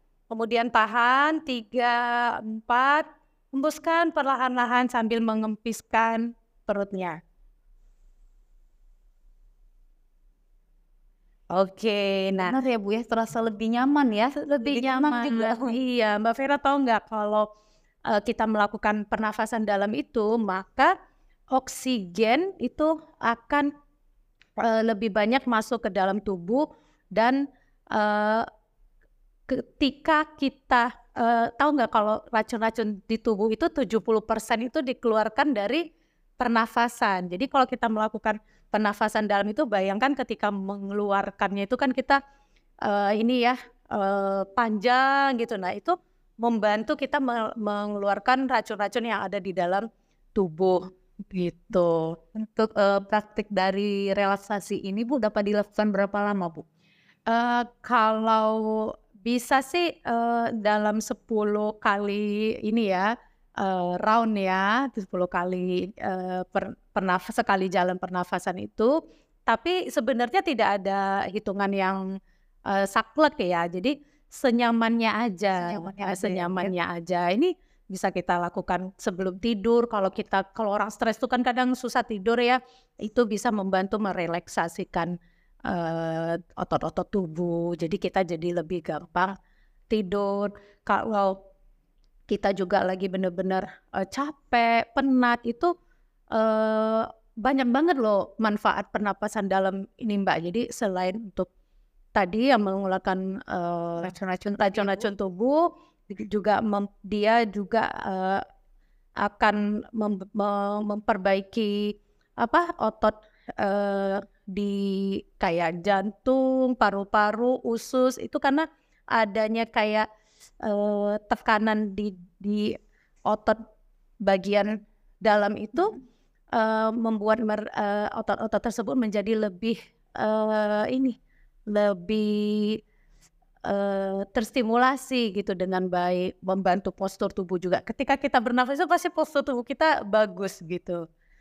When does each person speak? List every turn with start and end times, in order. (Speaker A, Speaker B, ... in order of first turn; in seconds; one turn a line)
Speaker A: 0.3-7.2
Speaker A: 11.5-12.5
Speaker B: 12.4-15.8
Speaker A: 14.4-17.5
Speaker A: 18.1-20.9
Speaker A: 21.5-23.7
Speaker A: 24.6-28.4
Speaker A: 29.5-35.8
Speaker A: 36.4-42.2
Speaker A: 42.8-52.2
Speaker B: 52.3-56.6
Speaker A: 57.3-69.0
Speaker A: 69.5-72.0
Speaker A: 72.7-85.1
Speaker B: 75.6-76.7
Speaker A: 85.7-89.3
Speaker A: 89.9-91.4
Speaker A: 92.3-95.7
Speaker A: 96.3-101.5
Speaker A: 102.1-108.4
Speaker B: 104.0-105.1
Speaker A: 109.2-120.0
Speaker A: 120.6-123.6
Speaker A: 124.2-126.0
Speaker A: 126.5-131.2
Speaker A: 131.7-132.8
Speaker A: 133.6-141.0